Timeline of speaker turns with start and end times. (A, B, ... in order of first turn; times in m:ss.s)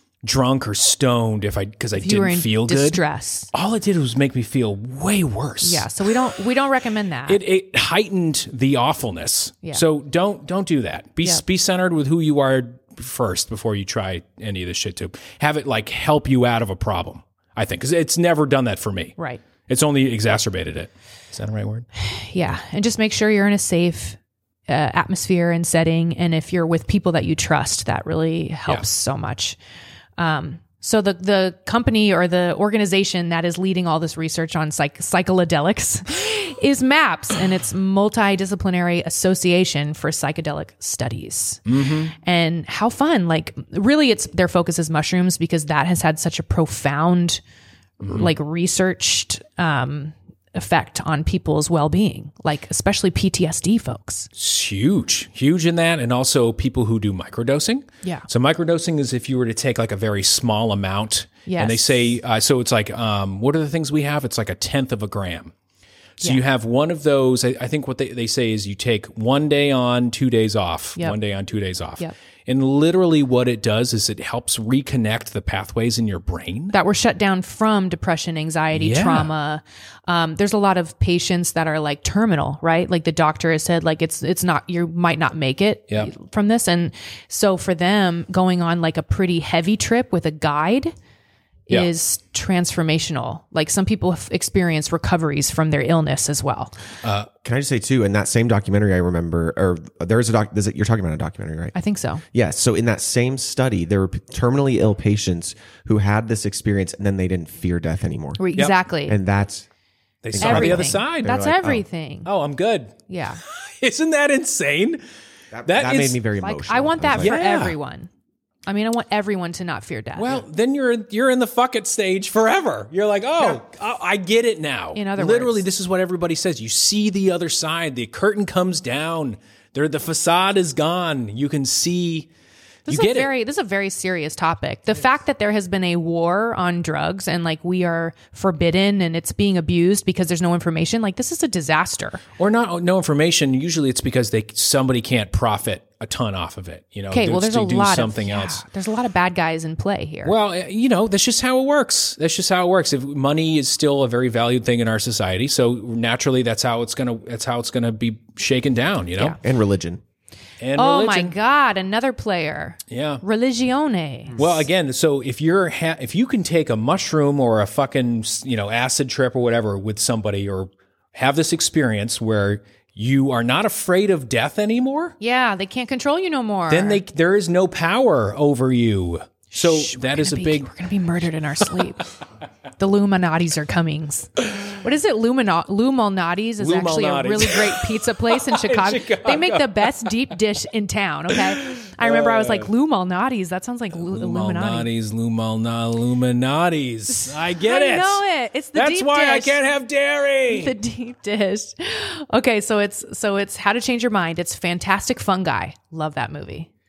0:00.2-0:06.1 A
0:02.0-0:03.5 B
0:05.6-0:07.4 B
0:07.3-0:19.2 A
0:19.2-0:19.4 B
0:19.7-0:21.9 A
0:22.0-0:29.6 B
0:30.2-0:47.4 B
0:41.7-0:42.1 A
0:48.0-0:48.3 A
0:48.0-0:54.3 B
0:54.4-1:05.5 A
1:01.5-1:01.9 B
1:06.2-1:16.8 A
1:16.7-1:30.9 B
1:18.7-1:19.3 A
1:31.7-1:36.7 B
1:37.0-1:37.3 A
1:37.4-1:41.8 C
1:41.8-1:42.2 B
1:42.3-1:48.4 C
1:48.4-1:49.2 B
1:49.1-1:49.7 C
1:50.2-1:51.4 A
1:50.3-1:51.8 C
1:50.4-1:52.3 B
1:52.2-1:55.0 A
1:53.1-1:53.4 B
1:55.5-1:57.5 C
1:55.7-1:56.2 A
1:56.4-1:58.1 B
1:57.2-1:57.8 A
1:58.7-2:00.4 B
2:00.2-2:12.3 A
2:04.9-2:05.6 B
2:12.9-2:13.3 A
2:12.9-2:22.2 B
2:22.4-2:28.6 A
2:27.1-2:30.3 B
2:30.2-2:39.4 A
2:39.4-2:40.0 C
2:40.6-2:41.4 A
2:40.8-2:44.5 B
2:42.9-2:43.2 A
2:44.4-2:55.2 A
2:55.2-2:57.0 B
2:56.7-3:00.7 A
2:59.5-3:02.1 B
3:02.8-3:14.9 B
3:06.6-3:10.3 A
3:11.3-3:12.7 A
3:13.9-3:18.2 A
3:17.1-3:19.6 B
3:18.7-3:20.8 A
3:20.5-3:26.7 B